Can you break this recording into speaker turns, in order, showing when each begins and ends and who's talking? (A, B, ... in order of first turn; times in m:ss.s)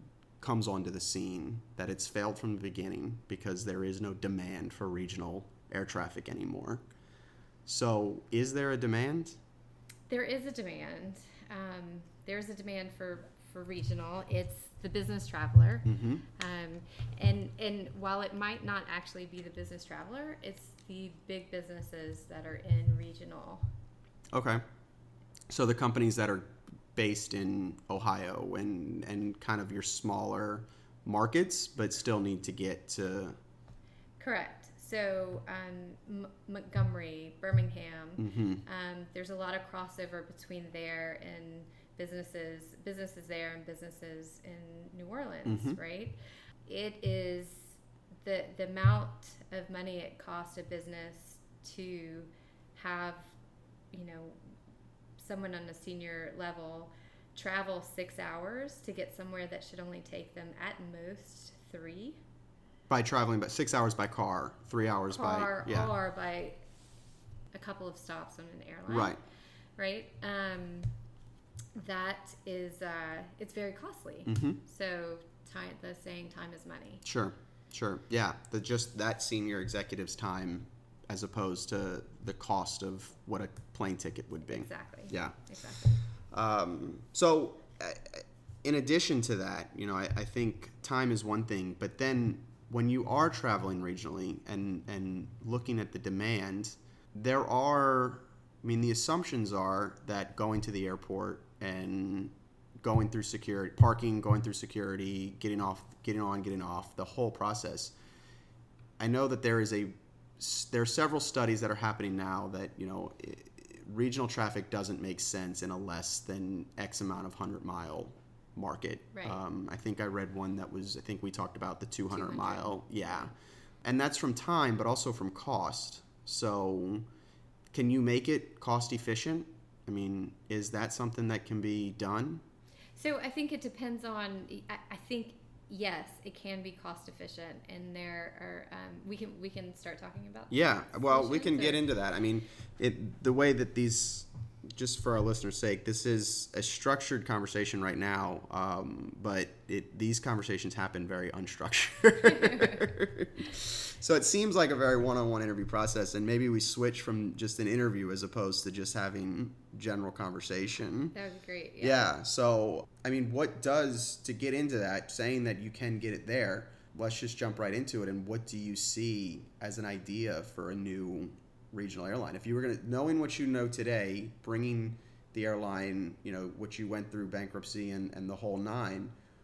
0:00.4-0:06.8 A
0:07.7-0:09.4 A
0:10.1-0:23.6 B
0:15.8-0:16.2 A
0:24.3-0:24.6 A
0:25.5-0:33.4 A
0:34.2-0:53.4 B
0:38.2-0:38.6 A
0:45.5-0:45.8 A
0:53.9-0:54.4 B
0:55.2-1:02.2 B
1:02.9-1:05.9 A
1:05.1-1:06.6 B
1:07.5-1:09.2 B
1:08.9-1:09.2 A
1:09.8-1:11.0 B
1:11.8-1:17.0 B
1:14.3-1:14.6 A
1:17.0-1:25.4 A
1:24.5-1:26.0 B
1:26.1-1:48.0 A
1:49.0-2:03.3 A
1:59.1-1:59.4 B
2:02.1-2:03.3 B
2:03.8-2:07.1 A
2:07.7-2:12.4 A
2:13.0-2:21.9 B
2:20.5-2:41.1 A
2:32.2-2:32.9 B
2:41.1-2:42.0 B
2:41.8-2:59.2 A